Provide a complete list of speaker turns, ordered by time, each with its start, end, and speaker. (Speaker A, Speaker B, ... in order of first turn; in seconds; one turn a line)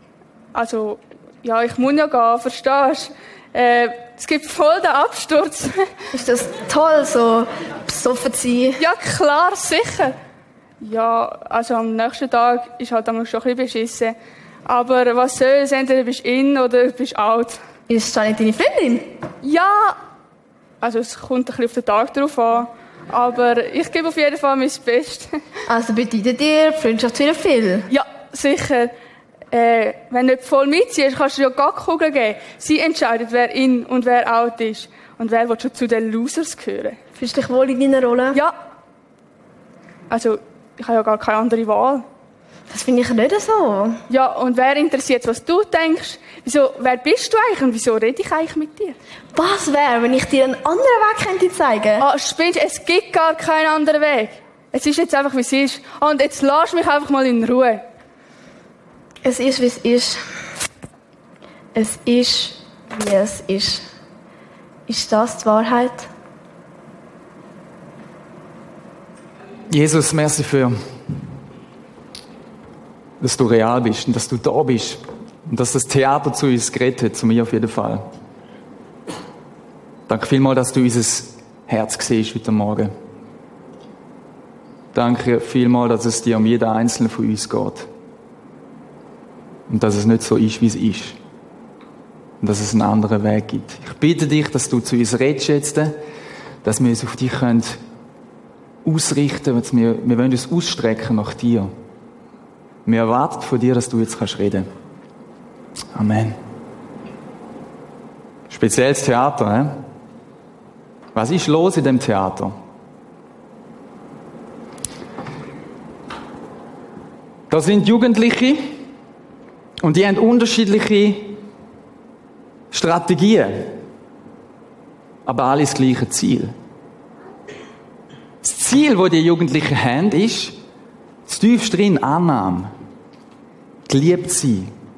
Speaker A: 0.5-5.8
Speaker B: 6.1-8.8
Speaker A: 8.8-10.2
Speaker A: 10.8-14.1
Speaker A: 14.7-17.6
Speaker B: 17.9-19.1
Speaker A: 19.4-20.0
Speaker A: 20.8-25.4
Speaker B: 25.7-27.9
Speaker A: 27.9-28.9
Speaker A: 29.5-37.0
Speaker B: 37.2-38.4
Speaker A: 40.1-42.0
Speaker B: 42.7-44.0
Speaker A: 44.1-49.0
Speaker B: 49.3-52.0
Speaker A: 52.0-57.8
Speaker B: 59.2-60.2
Speaker B: 61.7-63.8
Speaker B: 64.9-66.1
Speaker C: 69.7-70.8
Speaker C: 73.2-78.0
Speaker C: 80.1-82.9
Speaker C: 84.9-87.9
Speaker C: 89.7-91.2
Speaker C: 92.4-96.0
Speaker C: 96.6-97.8
Speaker C: 98.8-101.7
Speaker C: 102.8-104.7
Speaker C: 105.9-106.4
Speaker C: 108.5-109.8
Speaker C: 111.1-112.5
Speaker C: 117.5-118.8
Speaker C: 119.8-121.4
Speaker C: 122.7-123.8
Speaker C: 125.2-126.5
Speaker C: 128.4-130.5
Speaker C: 131.3-132.7
Speaker C: 133.9-134.7